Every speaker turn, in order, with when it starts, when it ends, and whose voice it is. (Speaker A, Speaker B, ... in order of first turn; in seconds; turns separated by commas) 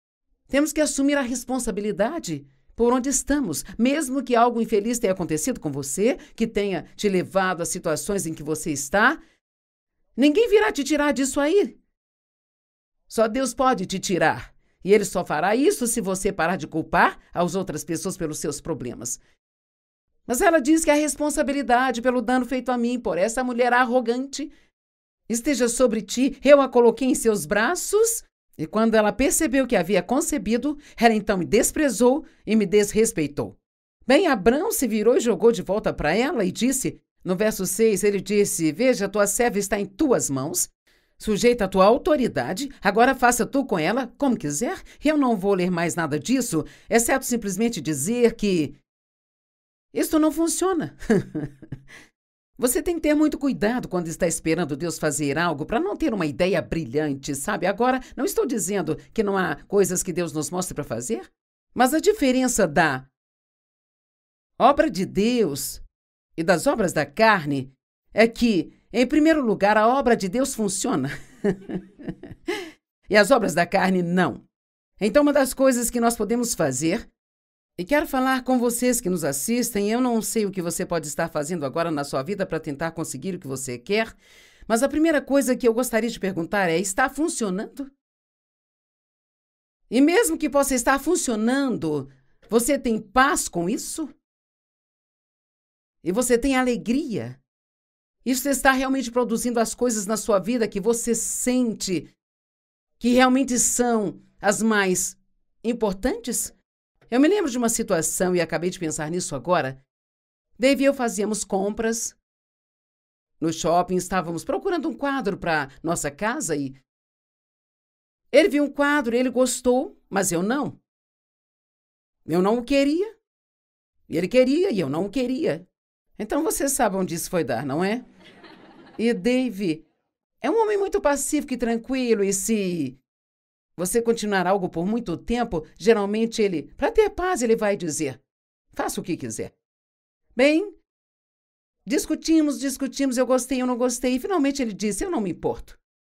Speaker A: 0.5-9.2, Speaker A: 10.2-11.8, Speaker A: 13.1-19.2, Speaker A: 20.3-24.5, Speaker A: 25.3-48.8, Speaker A: 49.9-51.5, Speaker A: 52.6-63.1, Speaker A: 64.6-65.8, Speaker A: 66.3-72.5, Speaker A: 73.1-74.4, Speaker A: 75.0-77.1, Speaker A: 77.8-84.1, Speaker A: 84.7-87.9, Speaker A: 89.9-94.1, Speaker A: 96.0-97.4, Speaker A: 98.2-102.1, Speaker A: 103.0-106.5, Speaker A: 107.1-109.8, Speaker A: 110.6-112.2, Speaker A: 113.4-116.8, Speaker A: 118.3-120.8, Speaker A: 122.2-123.1, Speaker A: 124.1-125.7, Speaker A: 126.2-128.1, Speaker A: 129.0-129.8, Speaker A: 130.4-133.0, Speaker A: 133.8-138.2, Speaker A: 138.7-139.5, Speaker A: 140.3-140.8, Speaker A: 141.8-145.8